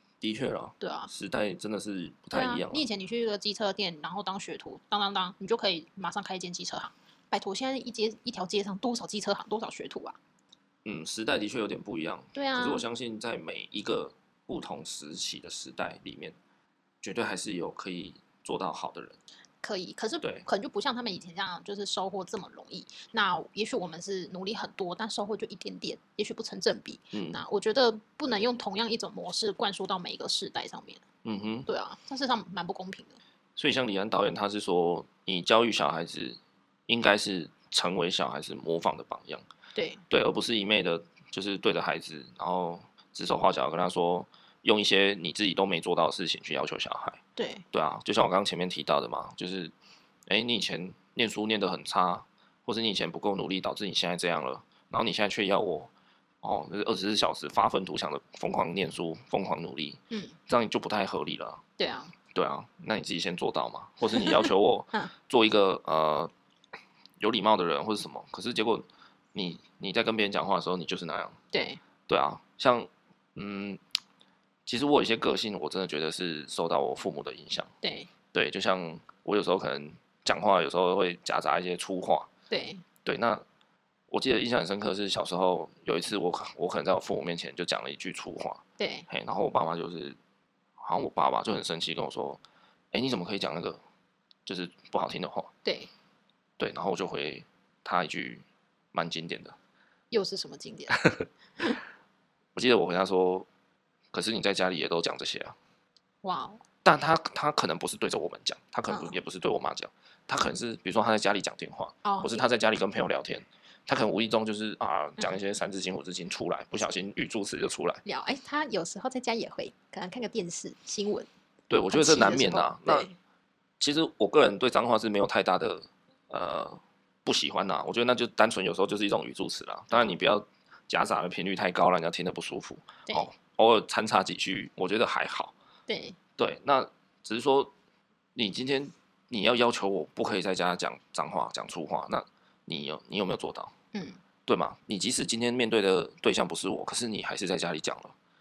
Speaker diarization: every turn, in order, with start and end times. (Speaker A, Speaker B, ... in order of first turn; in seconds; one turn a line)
Speaker A: 0.2-2.8
Speaker B: 0.8-1.1
Speaker B: 2.3-10.2
Speaker A: 10.8-16.4
Speaker B: 12.3-12.8
Speaker A: 17.0-19.2
Speaker B: 19.6-31.0
Speaker A: 27.1-27.4
Speaker A: 31.2-31.7
Speaker B: 31.7-33.2
Speaker A: 33.5-39.4
Speaker B: 39.7-40.0
Speaker A: 40.1-47.2
Speaker B: 47.4-47.6
Speaker A: 47.7-49.7
Speaker A: 50.3-55.9
Speaker A: 56.4-61.6
Speaker B: 60.1-60.4
Speaker B: 61.8-62.1
Speaker A: 62.3-66.3
Speaker B: 64.1-65.1
Speaker A: 67.2-71.4
Speaker B: 71.5-71.8
Speaker A: 72.1-73.8
Speaker A: 74.7-77.7
Speaker B: 77.8-78.1
Speaker A: 78.3-82.3
Speaker B: 82.5-82.8
Speaker A: 83.0-83.4
Speaker A: 84.1-90.2
Speaker B: 88.8-89.1
Speaker A: 90.8-92.4
Speaker A: 92.9-93.8
Speaker A: 94.5-95.5
Speaker B: 95.6-95.9
Speaker A: 96.6-99.5
Speaker B: 100.1-101.0
Speaker A: 102.5-103.5
Speaker A: 104.1-105.5
Speaker B: 106.2-106.6
Speaker A: 106.8-118.0
Speaker B: 108.9-109.2
Speaker B: 112.0-112.4
Speaker B: 118.0-121.3
Speaker A: 121.7-123.1
Speaker B: 121.9-123.1
Speaker A: 123.8-135.5
Speaker B: 135.9-136.2
Speaker A: 136.4-137.7
Speaker A: 138.3-143.7
Speaker B: 143.9-144.2
Speaker A: 144.4-148.1